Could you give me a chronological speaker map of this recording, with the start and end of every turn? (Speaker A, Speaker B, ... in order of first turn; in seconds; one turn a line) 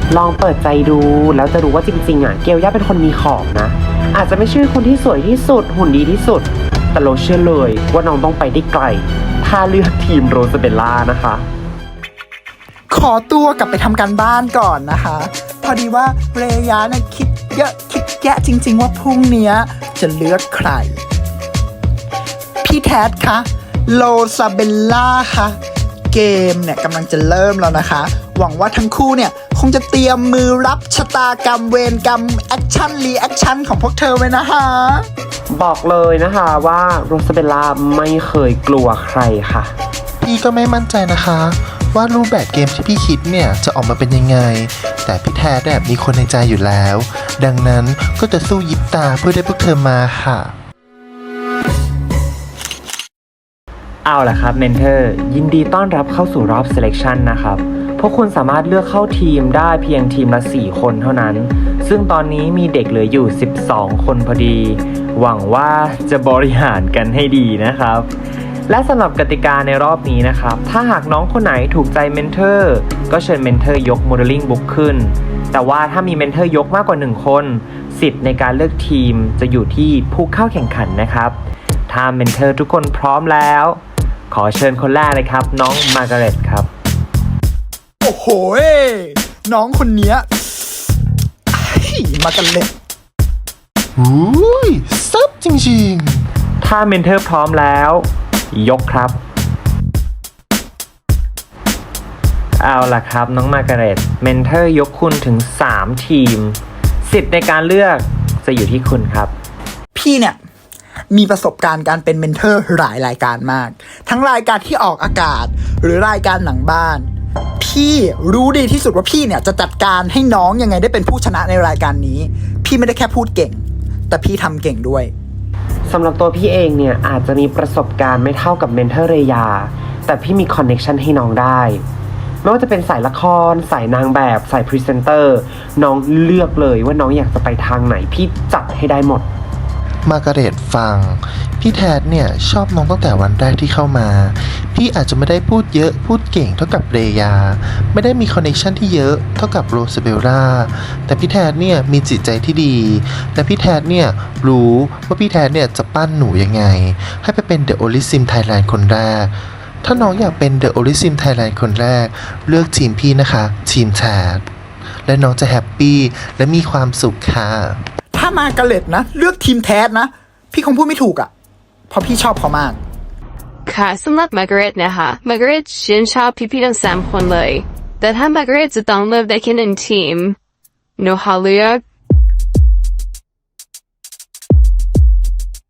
Speaker A: 0.1-11.5
Speaker B: 12.9-21.0
Speaker B: 22.6-25.6
Speaker B: 26.1-35.1
Speaker A: 35.5-39.7
Speaker C: 40.2-50.6
Speaker A: 54.0-68.1
Speaker A: 68.7-81.4
Speaker A: 81.9-86.7
Speaker B: 88.0-90.9
Speaker B: 91.5-92.7
Speaker C: 94.0-96.3
Speaker A: 96.6-99.2
Speaker A: 102.6-109.3
Speaker B: 110.0-110.4
Speaker B: 111.1-125.1
Speaker A: 125.9-131.8
Speaker A: 132.4-139.3
Speaker C: 140.1-164.5
Speaker C: 165.1-167.8
Speaker B: 168.1-171.3
Speaker B: 171.9-172.8
Speaker D: 173.7-180.4
Speaker D: 181.0-181.8